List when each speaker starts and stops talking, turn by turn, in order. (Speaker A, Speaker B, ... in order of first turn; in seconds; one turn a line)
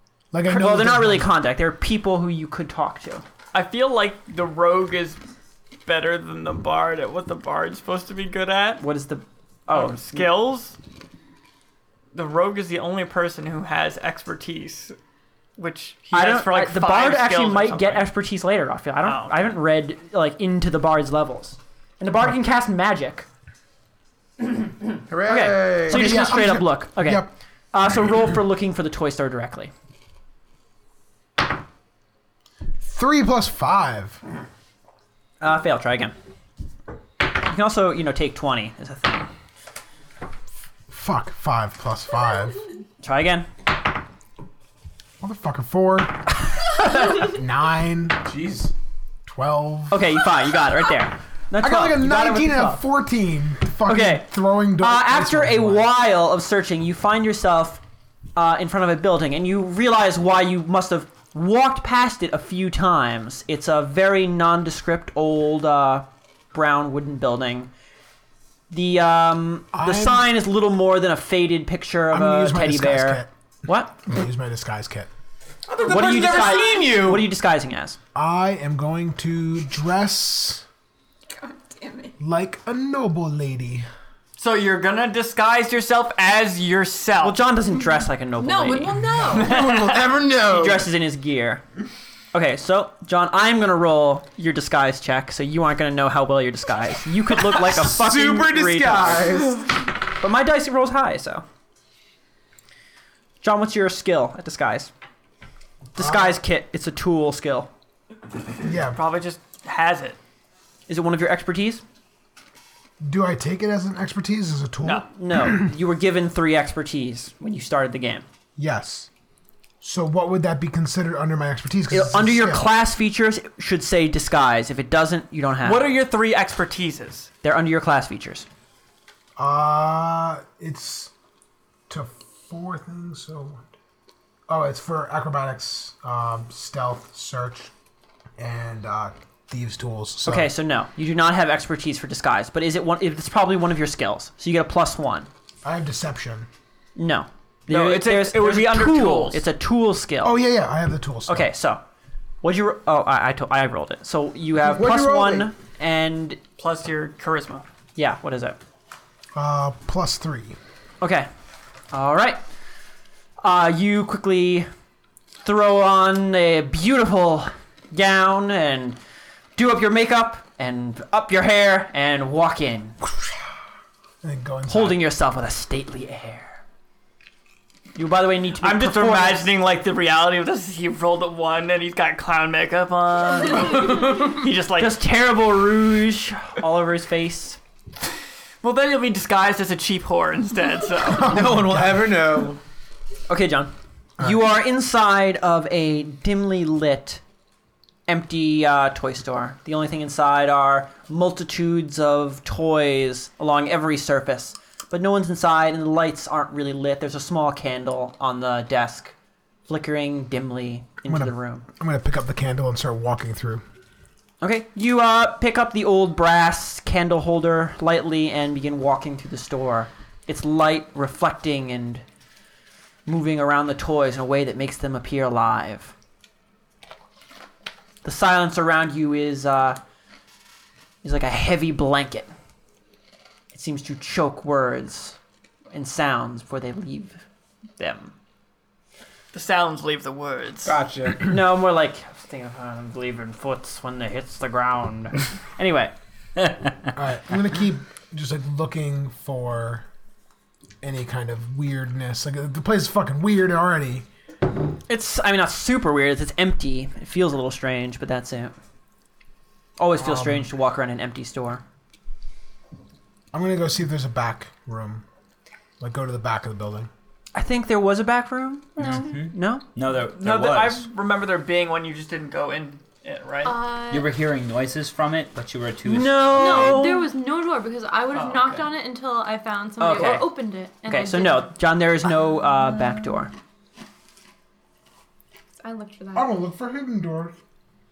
Speaker A: 0.3-1.3
Speaker B: 0.5-3.2
Speaker C: 3.5-5.2
Speaker C: 5.8-8.8
Speaker B: 8.8-10.3
Speaker C: 9.7-10.8
Speaker C: 12.1-14.9
Speaker C: 15.6-18.1
Speaker B: 16.1-23.2
Speaker C: 19.0-19.5
Speaker D: 25.1-26.5
Speaker B: 25.2-29.7
Speaker A: 25.9-27.3
Speaker A: 32.8-34.2
Speaker B: 35.4-36.1
Speaker B: 37.2-39.3
Speaker A: 40.9-42.6
Speaker B: 43.0-43.5
Speaker A: 45.2-48.2
Speaker D: 48.2-48.7
Speaker A: 49.2-50.0
Speaker B: 49.9-52.8
Speaker A: 51.6-55.9
Speaker B: 53.9-57.8
Speaker B: 58.4-67.7
Speaker B: 68.7-74.0
Speaker A: 69.7-70.4
Speaker A: 72.1-73.3
Speaker A: 74.0-75.1
Speaker D: 75.7-77.3
Speaker B: 75.8-78.0
Speaker E: 76.1-76.8
Speaker A: 78.1-80.6
Speaker E: 81.3-82.1
Speaker A: 82.2-83.9
Speaker C: 84.4-87.4
Speaker B: 87.2-89.0
Speaker E: 88.4-89.6
Speaker A: 89.0-89.4
Speaker D: 89.3-90.9
Speaker C: 89.4-90.2
Speaker B: 90.4-91.6
Speaker B: 92.3-99.5
Speaker D: 97.5-99.7
Speaker B: 100.1-101.4
Speaker B: 103.4-104.9
Speaker B: 105.9-107.7
Speaker A: 106.0-106.4
Speaker A: 108.6-109.0
Speaker C: 108.9-110.2
Speaker B: 110.9-111.8
Speaker A: 113.0-115.6
Speaker B: 115.0-118.2
Speaker A: 118.6-119.1
Speaker A: 119.8-122.7
Speaker B: 121.9-125.9
Speaker C: 125.6-127.3
Speaker B: 127.4-128.4
Speaker A: 129.4-131.1
Speaker A: 131.9-133.6
Speaker A: 134.5-137.7
Speaker A: 138.4-140.5
Speaker B: 140.2-145.3
Speaker A: 145.6-146.5
Speaker B: 146.9-150.4
Speaker C: 147.7-149.4
Speaker A: 150.2-151.5
Speaker B: 151.2-151.8
Speaker B: 152.4-156.4
Speaker A: 154.8-155.5
Speaker C: 156.6-157.6
Speaker B: 157.9-158.6
Speaker A: 159.3-160.6
Speaker B: 161.0-161.3
Speaker B: 161.9-162.4
Speaker B: 163.4-164.7
Speaker B: 165.4-169.0
Speaker B: 169.6-173.0
Speaker A: 174.2-175.1
Speaker B: 174.7-176.6
Speaker B: 177.9-179.5
Speaker C: 178.6-185.0
Speaker B: 184.8-187.6
Speaker C: 188.6-191.4
Speaker D: 191.1-192.6
Speaker A: 191.2-192.2
Speaker B: 193.3-197.2
Speaker B: 198.1-209.1
Speaker B: 209.7-211.6
Speaker A: 211.1-213.6
Speaker B: 214.4-222.0
Speaker B: 223.1-225.9
Speaker B: 228.0-229.8
Speaker B: 231.0-232.3
Speaker B: 233.5-235.2
Speaker B: 235.7-237.2
Speaker B: 237.8-238.1
Speaker C: 239.3-240.8
Speaker D: 240.6-241.3
Speaker B: 241.2-245.9
Speaker A: 246.9-249.8
Speaker A: 250.8-254.1
Speaker B: 254.9-258.5
Speaker B: 259.8-261.6
Speaker A: 260.0-260.5
Speaker A: 263.3-265.0
Speaker A: 265.8-266.9
Speaker B: 267.3-269.6
Speaker F: 268.8-270.9
Speaker C: 270.1-273.6
Speaker G: 273.4-274.1
Speaker F: 273.9-276.8
Speaker B: 275.8-277.1
Speaker G: 276.3-281.5
Speaker C: 278.1-278.7
Speaker B: 279.8-280.3
Speaker B: 280.8-283.3
Speaker G: 285.6-286.4
Speaker A: 286.1-287.4